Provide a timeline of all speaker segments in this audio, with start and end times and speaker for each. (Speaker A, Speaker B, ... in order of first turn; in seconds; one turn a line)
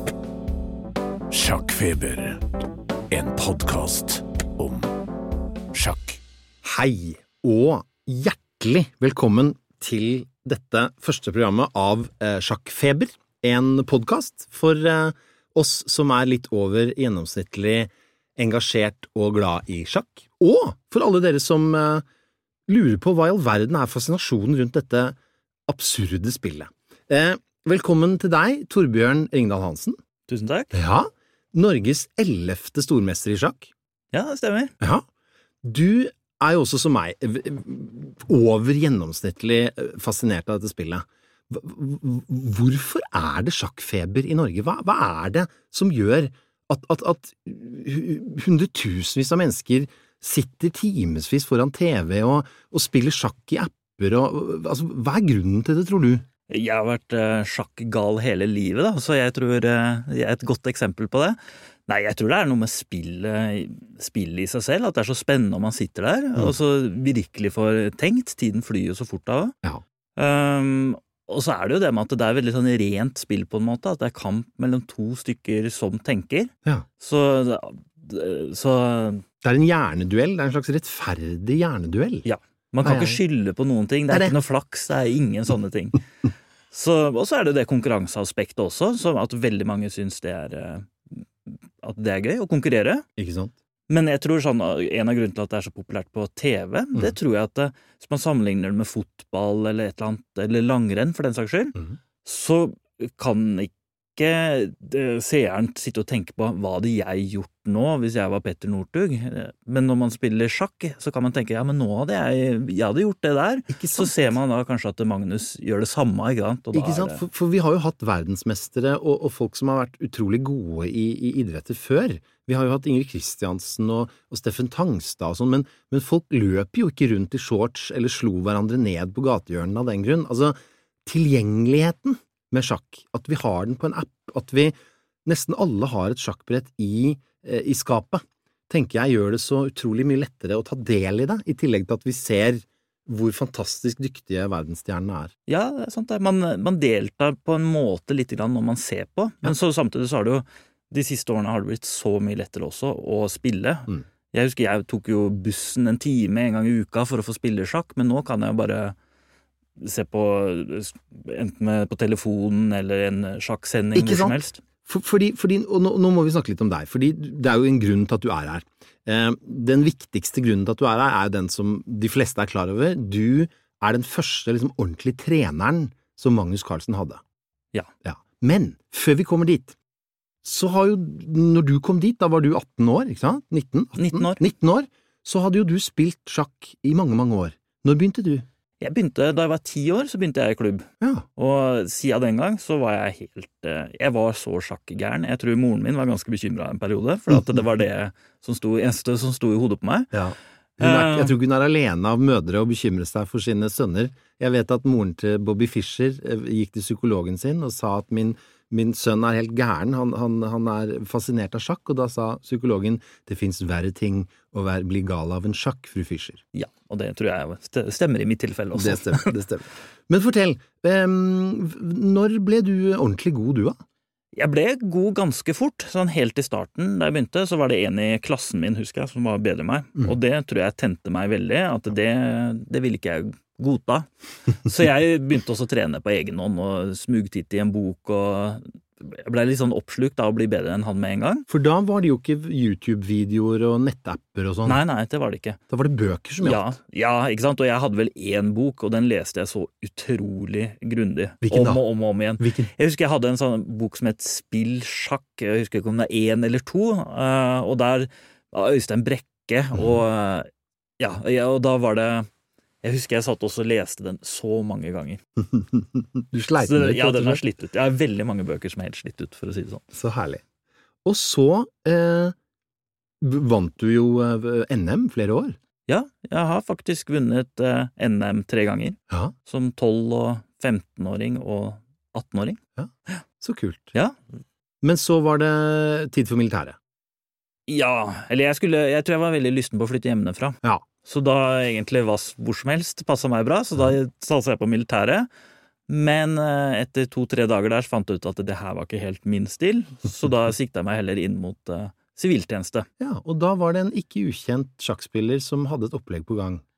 Speaker A: 1.3-2.4
Speaker A: 3.1-4.9
Speaker A: 5.7-6.2
Speaker B: 6.6-22.0
Speaker B: 22.7-25.2
Speaker B: 25.7-30.0
Speaker C: 30.3-30.7
Speaker B: 30.7-33.7
Speaker C: 34.1-34.7
Speaker B: 35.6-56.2
Speaker C: 56.5-69.5
Speaker C: 70.2-79.2
Speaker B: 79.4-82.3
Speaker C: 82.2-86.0
Speaker B: 82.8-83.2
Speaker C: 86.7-93.0
Speaker B: 93.2-93.5
Speaker C: 93.9-117.2
Speaker B: 113.7-114.1
Speaker B: 116.7-145.3
Speaker C: 145.5-159.0
Speaker C: 159.8-164.6
Speaker B: 163.9-177.2
Speaker B: 178.0-179.8
Speaker B: 180.4-188.4
Speaker C: 184.0-184.4
Speaker C: 188.8-200.1
Speaker B: 191.0-191.3
Speaker B: 200.1-216.4
Speaker C: 200.8-201.3
Speaker C: 216.5-219.3
Speaker B: 218.8-223.8
Speaker C: 224.3-241.5
Speaker B: 241.5-244.8
Speaker C: 244.7-245.6
Speaker B: 245.7-246.8
Speaker C: 246.4-262.3
Speaker B: 251.4-251.8
Speaker B: 252.4-252.7
Speaker C: 262.8-265.2
Speaker B: 265.5-267.4
Speaker C: 266.6-269.8
Speaker B: 269.9-270.4
Speaker B: 271.1-272.4
Speaker B: 273.2-275.6
Speaker C: 275.9-282.6
Speaker B: 282.8-283.9
Speaker B: 284.8-286.8
Speaker C: 287.7-295.3
Speaker C: 295.9-302.9
Speaker B: 303.0-306.6